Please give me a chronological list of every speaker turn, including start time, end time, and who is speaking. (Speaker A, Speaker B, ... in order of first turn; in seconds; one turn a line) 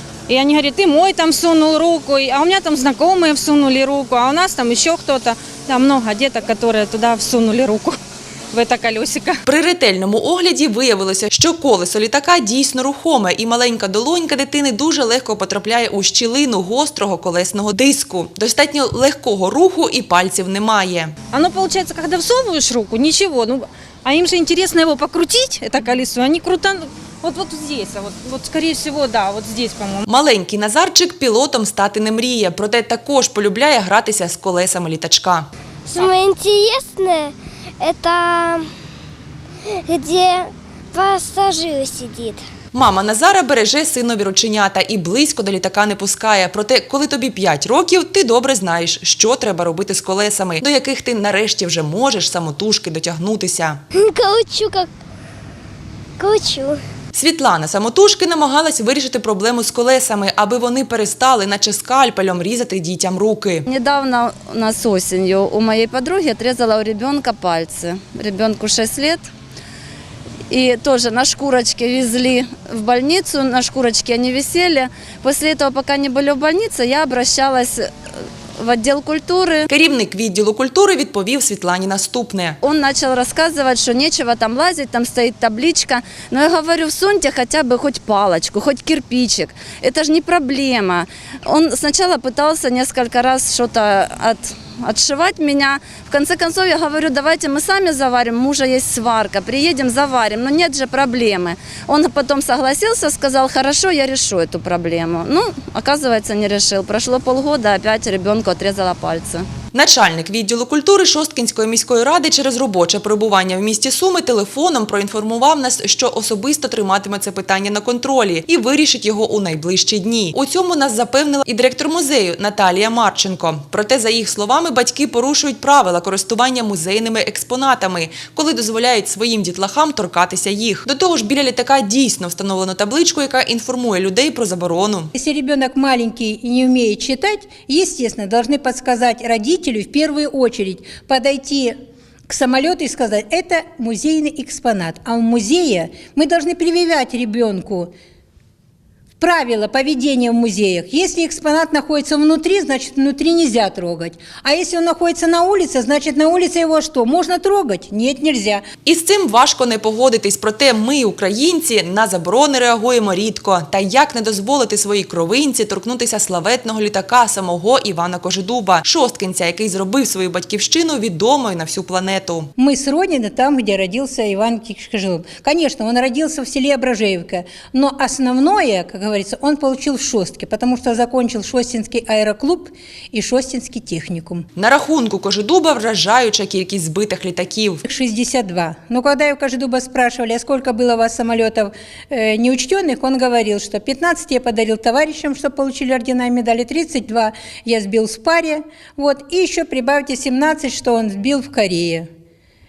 Speaker A: 0.3-8.0
Speaker A: 8.5-9.4
Speaker B: 9.5-21.1
Speaker A: 21.3-30.1
Speaker B: 30.1-35.5
Speaker C: 35.9-38.5
Speaker D: 36.0-37.3
Speaker D: 38.0-38.6
Speaker C: 39.9-40.4
Speaker D: 39.9-42.4
Speaker C: 40.9-42.3
Speaker B: 42.7-53.8
Speaker C: 54.0-54.9
Speaker D: 54.5-54.9
Speaker D: 56.2-56.8
Speaker C: 56.2-56.7
Speaker B: 57.1-63.7
Speaker D: 63.7-69.3
Speaker D: 70.5-79.7
Speaker B: 79.7-82.6
Speaker D: 82.6-109.5
Speaker B: 109.7-135.1
Speaker E: 135.2-141.8
Speaker E: 142.3-147.9
Speaker E: 149.2-158.6
Speaker B: 158.8-172.5
Speaker E: 172.6-184.5
Speaker B: 184.6-187.8
Speaker E: 187.9-202.1